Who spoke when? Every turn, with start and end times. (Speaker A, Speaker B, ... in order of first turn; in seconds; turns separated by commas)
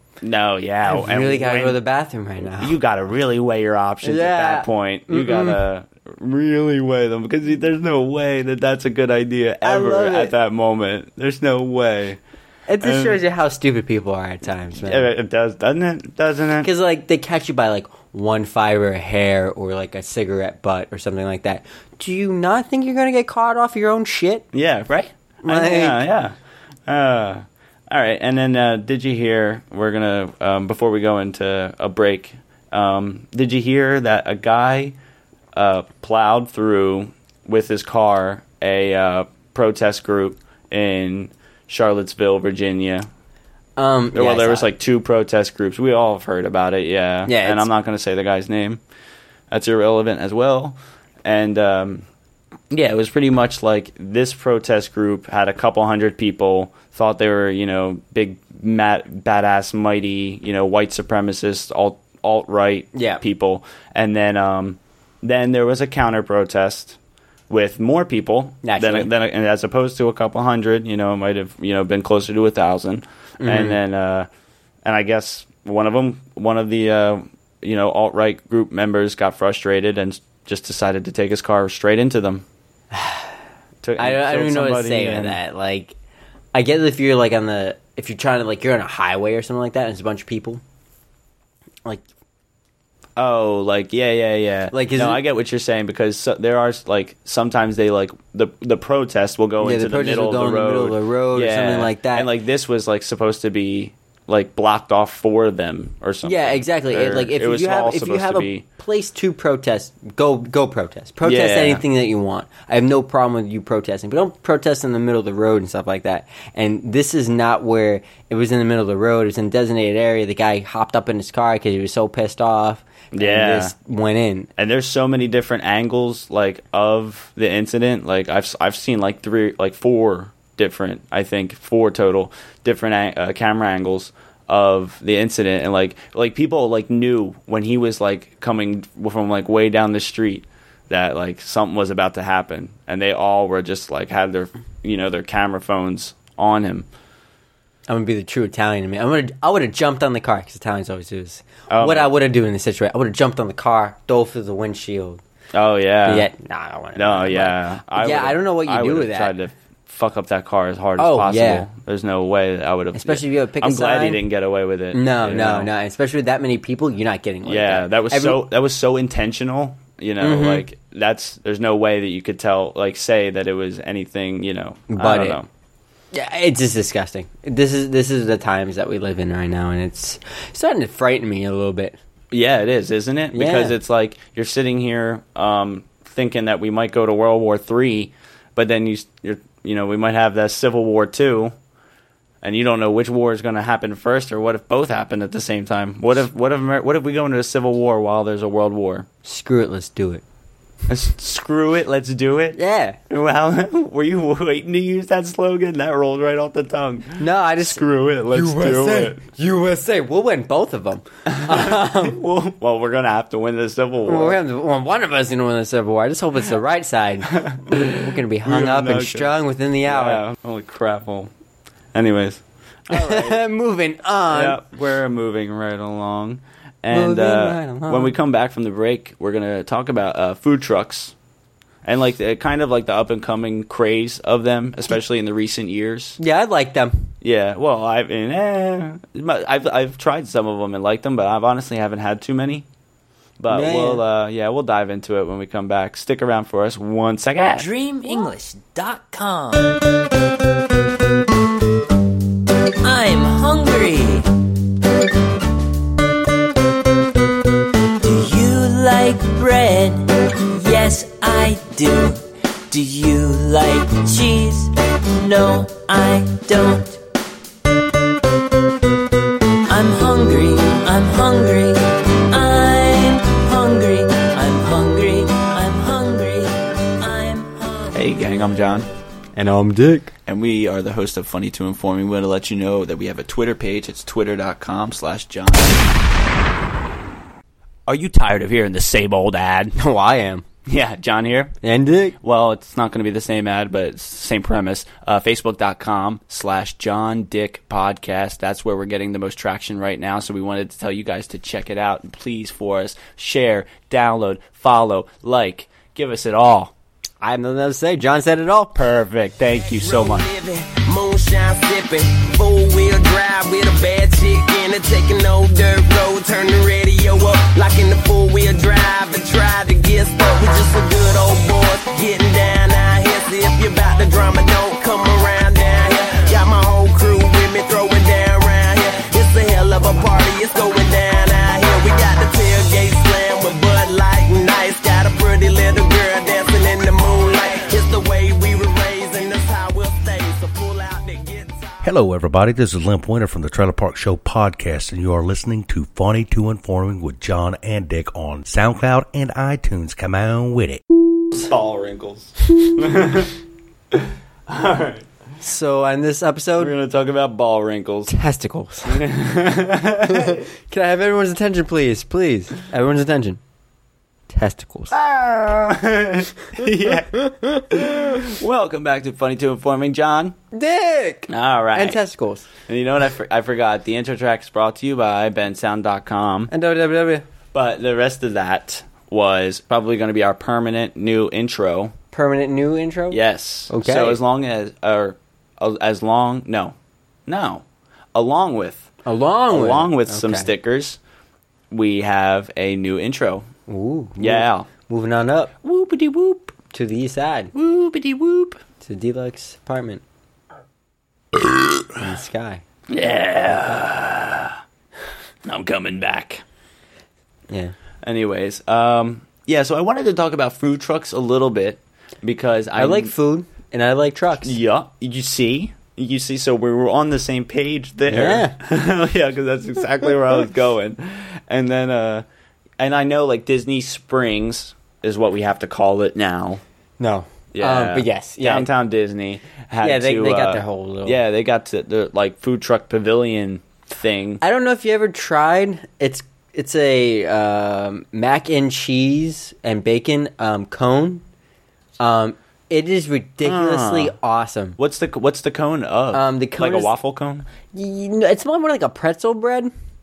Speaker A: 0.2-1.8, Speaker B: 0.9-2.8, Speaker A: 2.6-12.2, Speaker B: 4.0-5.6, Speaker B: 9.6-10.3, Speaker B: 12.7-15.1, Speaker A: 12.8-13.2, Speaker A: 14.8-16.7, Speaker B: 16.6-24.5, Speaker A: 24.5-26.4, Speaker B: 25.4-26.0, Speaker A: 26.9-35.0, Speaker A: 35.5-43.1, Speaker B: 43.8-44.7, Speaker A: 44.1-48.8, Speaker B: 47.3-47.7, Speaker A: 49.5-52.0, Speaker A: 52.7-67.0, Speaker B: 62.9-63.2, Speaker A: 67.5-74.3, Speaker B: 68.6-69.1, Speaker B: 73.4-73.8, Speaker A: 74.8-82.5, Speaker B: 82.9-83.3, Speaker A: 83.8-85.4, Speaker B: 84.0-86.0, Speaker B: 86.5-90.6, Speaker A: 93.2-108.6, Speaker B: 94.7-95.2, Speaker B: 99.6-102.3, Speaker B: 106.2-124.5, Speaker A: 111.2-111.8, Speaker A: 123.1-123.7, Speaker A: 124.6-146.9, Speaker B: 147.9-155.2, Speaker A: 151.7-152.1, Speaker A: 155.5-156.3, Speaker B: 156.1-159.3, Speaker A: 157.0-165.7, Speaker B: 161.0-161.7, Speaker B: 162.9-164.2, Speaker B: 164.9-168.4, Speaker A: 167.5-175.5, Speaker B: 170.2-170.7, Speaker B: 174.9-175.4, Speaker B: 176.1-182.0, Speaker A: 182.3-191.5, Speaker B: 183.3-183.8, Speaker A: 192.4-199.1, Speaker B: 199.2-200.2, Speaker A: 200.9-202.6, Speaker B: 202.6-203.0, Speaker A: 203.1-209.2, Speaker B: 207.2-212.2, Speaker A: 211.3-214.4, Speaker B: 214.1-220.2, Speaker A: 217.3-219.3, Speaker A: 219.9-221.3, Speaker A: 221.9-223.4, Speaker B: 222.9-224.6, Speaker A: 224.3-231.1, Speaker B: 226.9-228.1, Speaker A: 231.8-236.2, Speaker B: 236.2-237.1, Speaker A: 237.2-242.7, Speaker A: 243.4-247.7, Speaker B: 243.5-244.0, Speaker C: 247.6-249.8, Speaker C: 252.8-254.3, Speaker C: 258.0-267.0, Speaker C: 269.7-278.4, Speaker A: 277.9-278.9, Speaker B: 279.4-280.1, Speaker A: 280.3-285.9, Speaker A: 287.9-289.8, Speaker B: 289.8-290.4, Speaker A: 290.7-291.5, Speaker B: 291.6-292.2, Speaker A: 292.2-306.7, Speaker B: 307.2-308.7, Speaker A: 308.8-310.3, Speaker D: 309.8-341.8, Speaker E: 341.8-350.8, Speaker A: 351.3-353.3, Speaker A: 353.9-355.1, Speaker B: 355.4-356.7, Speaker A: 356.6-358.1, Speaker B: 358.1-359.0, Speaker A: 358.9-360.4, Speaker B: 360.1-363.4, Speaker B: 364.3-364.9, Speaker A: 364.9-370.4, Speaker B: 367.2-368.2, Speaker B: 370.5-372.5, Speaker A: 371.3-372.0, Speaker A: 372.7-376.5, Speaker B: 376.5-377.2, Speaker A: 377.5-381.9, Speaker B: 382.1-384.2, Speaker A: 383.1-386.8, Speaker A: 387.3-387.6, Speaker A: 388.1-388.9, Speaker B: 389.1-390.5, Speaker A: 389.5-391.0, Speaker A: 391.7-393.5, Speaker B: 393.7-395.5, Speaker A: 394.2-394.7, Speaker A: 395.6-396.5, Speaker B: 396.7-397.5, Speaker A: 397.5-398.6, Speaker B: 398.8-400.0, Speaker B: 402.0-402.6, Speaker A: 402.9-404.6, Speaker A: 405.4-406.4, Speaker A: 408.0-413.1, Speaker B: 412.8-414.6, Speaker A: 414.4-422.2, Speaker B: 418.1-418.6, Speaker A: 422.8-426.6, Speaker B: 427.0-428.7, Speaker A: 427.5-434.4, Speaker B: 429.8-431.2, Speaker B: 434.4-441.2, Speaker B: 442.0-444.8, Speaker A: 443.4-444.1, Speaker A: 444.8-447.5, Speaker B: 446.1-446.9, Speaker B: 447.7-449.7